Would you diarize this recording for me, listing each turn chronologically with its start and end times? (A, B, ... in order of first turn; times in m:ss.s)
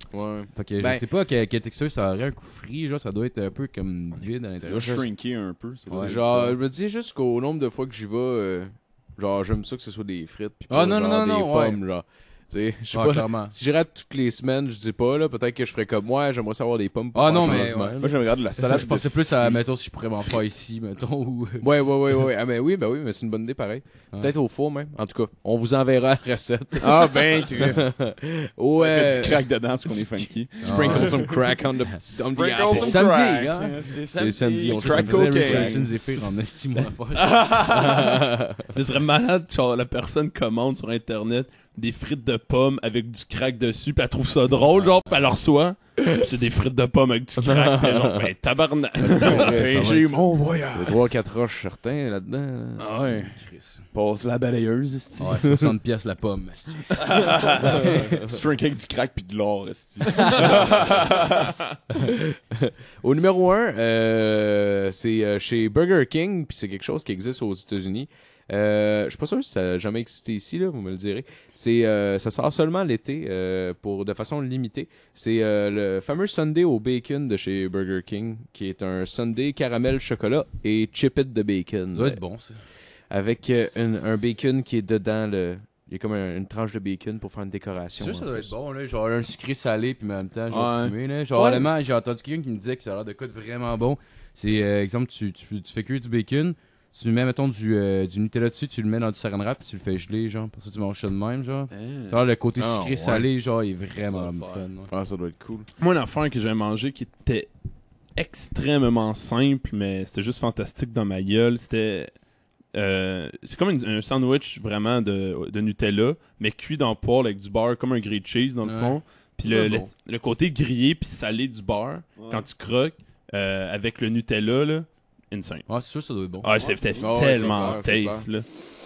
0:00.1-0:01.0 A
0:00.5-0:05.1 B
0:04.6-0:06.6 C
0:05.9-0:18.0 A
0:10.7-0:11.8 B
0:12.9-0:13.5 B
0:17.1-0:21.6 B
0:17.4-0:19.6 C
0:21.6-0:29.4 A
0:26.8-0:27.9 C
0:28.8-0:31.4 C
0:30.6-0:33.1 A
0:30.6-0:31.2 B
0:32.0-0:36.0 C
0:32.6-0:33.8 B
0:34.1-0:35.9 A
0:34.6-0:37.5 B
0:37.3-0:38.2 D
0:37.6-0:38.6 A
0:38.7-0:49.7 D
0:44.8-0:45.1 B
0:49.0-0:50.1 A
0:49.2-0:51.0 C
0:49.3-0:50.2 B
0:50.7-0:53.2 A
0:52.9-0:53.3 C
0:53.3-0:53.8 B
0:53.9-0:55.5 C
0:55.2-0:57.0 B
0:57.0-1:01.5 C
0:57.6-0:58.2 B
1:00.6-1:00.9 A
1:02.0-1:22.2 A
1:21.9-1:22.5 B
1:23.1-1:28.5 A
1:28.0-1:44.9 B
1:30.5-1:30.9 D
1:31.4-1:31.6 A
1:41.7-1:42.1 D
1:42.6-1:43.2 A
1:44.1-1:44.6 C
1:44.9-1:45.7 A
1:45.8-1:47.5 D
1:48.1-1:52.1 D
1:52.7-2:05.7 D
1:58.6-1:59.0 B
1:59.5-1:59.9 A
2:02.2-2:02.4 C
2:05.7-2:06.5 B
2:06.4-2:08.4 D
2:06.5-2:07.8 C
2:07.0-2:08.3 A